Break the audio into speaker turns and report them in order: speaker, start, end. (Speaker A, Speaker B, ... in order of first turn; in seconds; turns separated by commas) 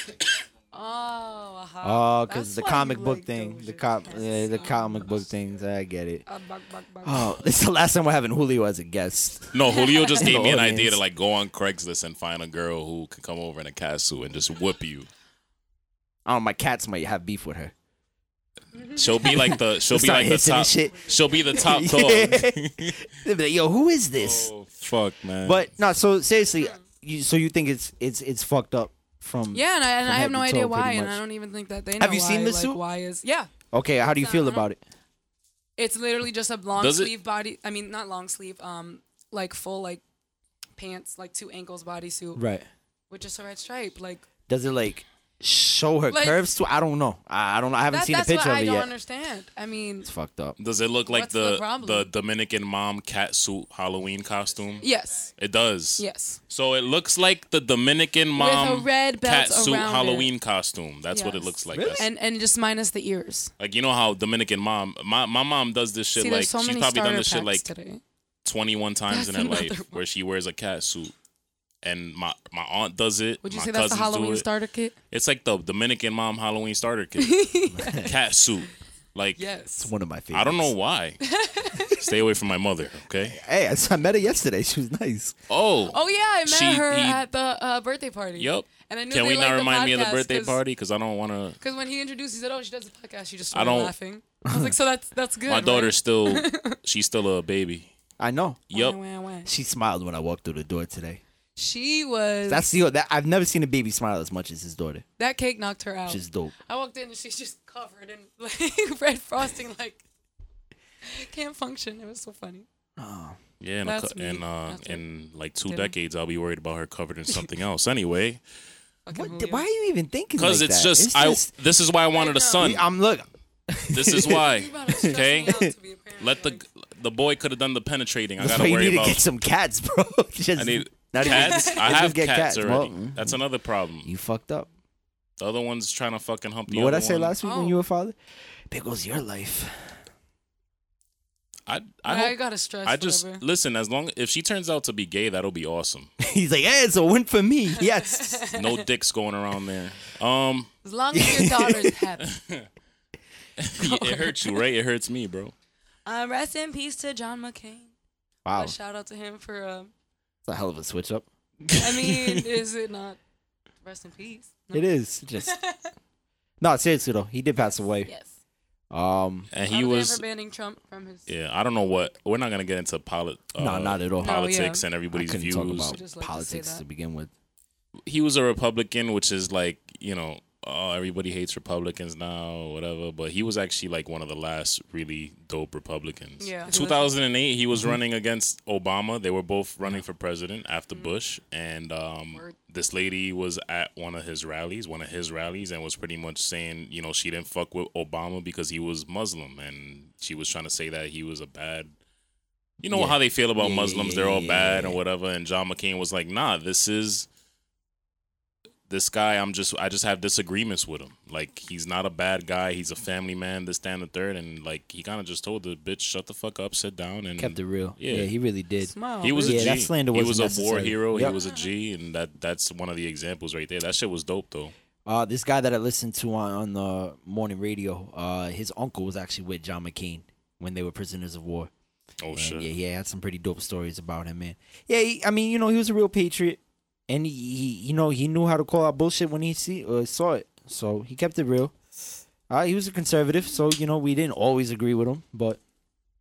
Speaker A: 0.7-5.1, Speaker B: 1.8-6.2, Speaker A: 6.2-7.4, Speaker B: 7.0-11.0, Speaker C: 9.5-15.1, Speaker A: 9.7-10.2, Speaker B: 16.2-17.7, Speaker A: 18.7-19.6, Speaker C: 18.9-23.1, Speaker B: 19.3-24.5, Speaker C: 24.2-25.6, Speaker B: 25.4-31.2, Speaker A: 29.5-33.5, Speaker B: 32.0-32.8, Speaker B: 33.7-34.8, Speaker A: 34.0-34.7, Speaker A: 35.8-40.0, Speaker C: 36.8-37.1, Speaker A: 40.8-42.4, Speaker B: 42.3-42.6, Speaker A: 43.1-44.2, Speaker B: 44.5-48.9, Speaker A: 46.1-46.4, Speaker A: 47.9-50.1, Speaker B: 50.0-50.5, Speaker C: 50.6-54.9, Speaker A: 51.0-52.1, Speaker A: 54.8-55.3, Speaker C: 55.4-62.0, Speaker A: 56.0-56.4, Speaker A: 58.3-60.3, Speaker A: 61.1-63.5, Speaker B: 61.7-62.1, Speaker C: 63.6-67.7, Speaker A: 66.2-68.0, Speaker C: 68.4-71.1, Speaker A: 69.1-70.0, Speaker C: 71.8-74.5, Speaker A: 73.4-74.9, Speaker C: 75.1-77.4, Speaker A: 77.2-78.1, Speaker B: 77.7-78.1, Speaker C: 78.0-79.4, Speaker A: 79.4-79.9, Speaker B: 79.8-80.7, Speaker C: 80.3-81.2, Speaker A: 81.2-82.0, Speaker C: 81.9-83.4, Speaker B: 83.2-85.3, Speaker C: 85.5-87.2, Speaker A: 85.9-90.6, Speaker C: 88.4-91.6, Speaker A: 91.6-96.8, Speaker C: 93.5-93.9, Speaker B: 94.4-94.7, Speaker C: 95.5-97.9, Speaker B: 98.2-98.6, Speaker C: 98.7-99.0, Speaker A: 98.7-99.5, Speaker B: 99.4-101.2, Speaker A: 101.5-102.7, Speaker B: 102.5-105.0, Speaker A: 105.2-110.0, Speaker B: 106.1-106.5, Speaker A: 111.0-112.7, Speaker B: 113.0-113.3, Speaker C: 113.6-118.4, Speaker A: 113.8-115.0, Speaker A: 115.7-115.9, Speaker A: 119.0-119.6, Speaker B: 119.1-121.5, Speaker C: 120.4-122.8, Speaker A: 122.2-122.6, Speaker B: 122.6-125.7, Speaker C: 123.9-125.6, Speaker A: 124.4-126.6, Speaker C: 126.2-129.2, Speaker B: 128.4-133.3, Speaker C: 130.6-134.1, Speaker A: 131.2-131.8, Speaker B: 134.0-134.7, Speaker C: 135.4-137.3, Speaker B: 136.7-138.2, Speaker A: 137.4-137.8, Speaker B: 138.7-139.9, Speaker C: 141.7-146.1, Speaker A: 142.1-143.4, Speaker B: 146.2-148.4, Speaker A: 147.8-148.8, Speaker C: 148.5-150.7, Speaker A: 150.8-152.2, Speaker B: 151.1-151.9, Speaker C: 152.2-152.7, Speaker C: 153.6-155.5, Speaker A: 153.8-154.6, Speaker A: 156.1-157.9, Speaker B: 158.4-158.8, Speaker A: 158.5-159.9, Speaker B: 160.5-161.2, Speaker C: 161.7-162.4, Speaker A: 161.8-163.2, Speaker A: 163.8-164.9, Speaker B: 164.7-165.5, Speaker A: 165.4-165.9, Speaker B: 166.6-168.1, Speaker A: 168.0-168.3, Speaker B: 168.9-169.5, Speaker C: 169.5-170.2, Speaker A: 169.7-171.3, Speaker C: 171.3-176.0, Speaker B: 173.6-174.5, Speaker A: 174.2-174.8, Speaker B: 175.1-177.3, Speaker A: 175.8-176.8, Speaker C: 178.1-201.9, Speaker A: 186.4-187.1, Speaker C: 202.8-207.3, Speaker B: 202.9-205.0, Speaker C: 208.9-218.3, Speaker B: 217.4-221.3, Speaker A: 218.8-219.7, Speaker C: 219.2-224.7, Speaker A: 221.3-221.7, Speaker B: 225.1-231.7, Speaker C: 232.2-232.7, Speaker B: 232.3-241.7, Speaker B: 242.5-245.6